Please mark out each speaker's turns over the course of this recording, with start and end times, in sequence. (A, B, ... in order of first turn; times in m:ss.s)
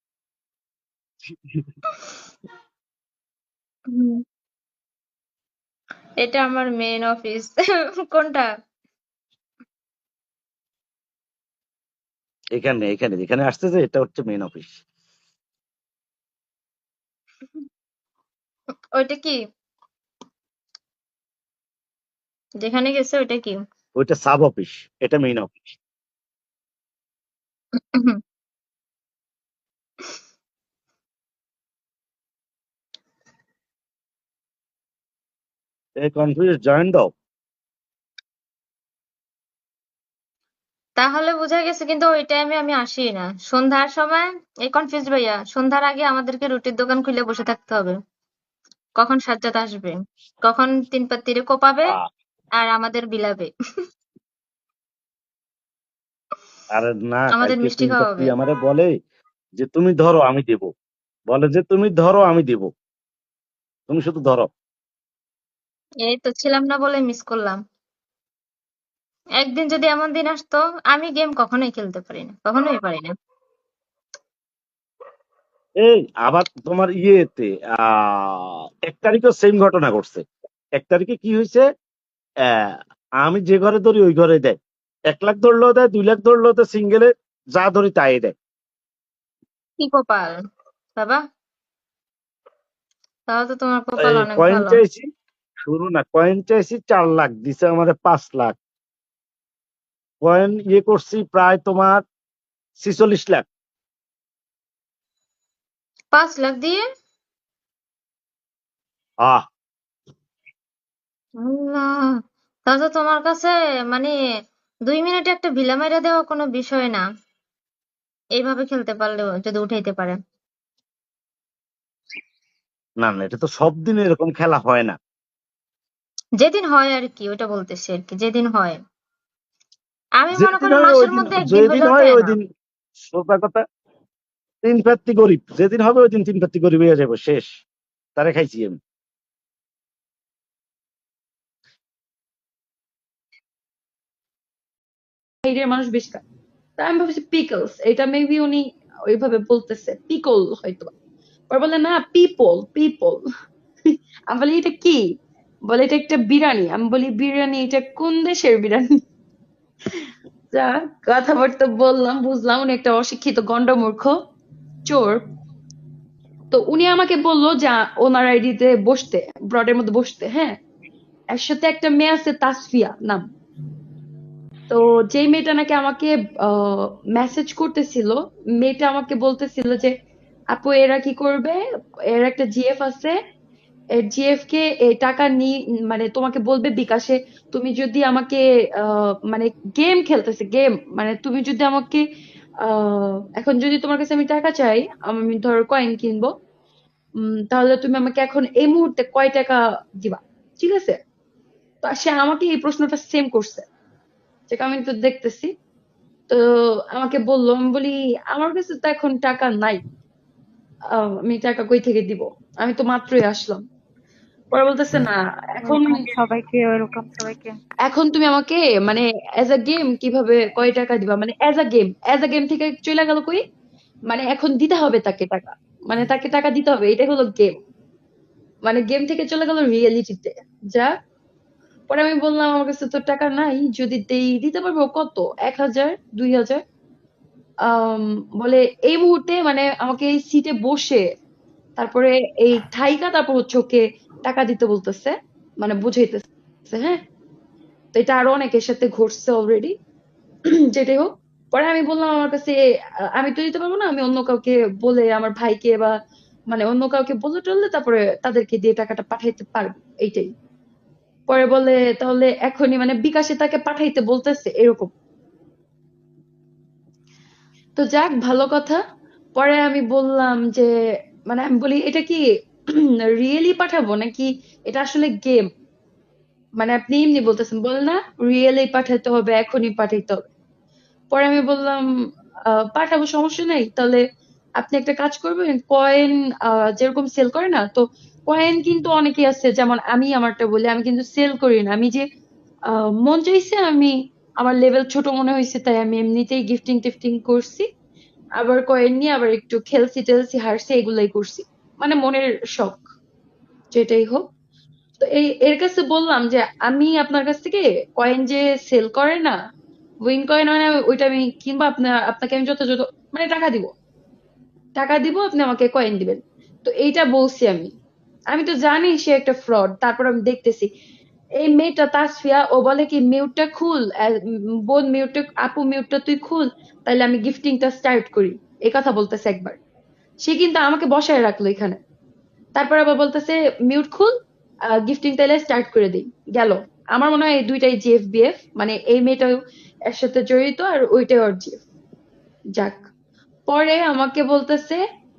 0:03.9-0:04.2 A
0:06.2-0:08.5 A
0:12.6-0:14.8 B
0:19.0-0:19.4 A
0:22.6-0:23.6 A
0:24.0-0:25.5 B
0:27.9-0:28.2 A
0:36.0-0:37.1 B
0:41.0-0:48.0 A
0:49.0-0:52.0 A
0:52.6-0:53.5 A
0:56.8-0:58.9 B
0:57.4-0:58.3 A
0:59.6-1:00.7 B
1:01.3-1:02.7 B
1:03.9-1:04.5 B
1:06.0-1:07.6 A
1:09.4-1:13.1 A
1:15.8-1:20.2 B
1:20.8-1:21.6 B
1:22.4-1:24.6 B
1:25.1-1:28.3 B
1:29.8-1:30.4 A
1:33.3-1:34.8 A
1:34.0-1:35.0 B
1:35.7-1:38.6 B
1:40.2-1:42.0 B
1:42.8-1:43.5 B
1:46.1-1:46.8 A
1:51.4-1:52.1 A
1:52.7-1:54.1 A
1:54.9-1:57.0 A
1:58.4-2:00.2 A
2:03.0-2:05.0 B
2:06.4-2:08.8 A
2:10.2-2:12.4 A
2:10.4-2:12.4 B
2:13.0-2:13.6 B
2:14.7-2:17.5 B
2:18.2-2:18.8 B
2:25.5-2:26.2 C
2:26.8-2:30.9 C
2:31.5-2:33.2 C
2:34.3-2:35.0 C
2:35.7-2:38.9 C
2:40.5-2:44.2 C
2:44.9-2:45.2 C
2:46.5-2:50.5 C
2:51.3-2:53.3 C
2:54.7-2:59.9 C
3:00.5-3:01.6 C
3:02.1-3:03.2 C
3:03.9-3:12.0 C
3:12.6-3:16.4 C
3:17.2-3:21.0 C
3:21.8-3:23.7 C
3:24.5-3:25.5 C
3:26.3-3:29.8 C
3:30.9-3:33.6 C
3:34.5-3:36.0 C
3:35.6-3:37.6 D
3:37.9-3:43.4 C
3:44.1-3:47.5 C
3:48.7-3:50.9 C
3:51.9-3:56.6 C
3:57.7-4:01.0 C
4:01.8-4:07.0 C
4:08.0-4:09.7 C
4:10.8-4:12.6 C
4:13.2-4:15.9 C
4:16.5-4:20.3 C
4:21.3-4:24.9 C
4:27.8-4:28.8 C
4:29.4-4:30.7 C
4:31.3-4:32.2 C
4:33.2-4:35.5 C
4:36.6-4:40.3 C
4:41.1-4:41.8 C
4:42.7-4:44.0 C
4:44.6-4:52.0 C
4:52.7-4:57.7 C
4:58.4-5:02.8 C
5:03.7-5:04.3 C
5:05.0-5:09.4 C
5:10.0-5:13.7 C
5:14.8-5:17.7 C
5:18.3-5:20.7 C
5:21.4-5:24.2 C
5:24.7-5:29.6 C
5:30.2-5:31.8 C
5:32.6-5:34.1 C
5:34.7-5:39.4 C
5:39.9-5:41.6 C
5:42.6-5:42.8 C
5:43.5-5:44.8 C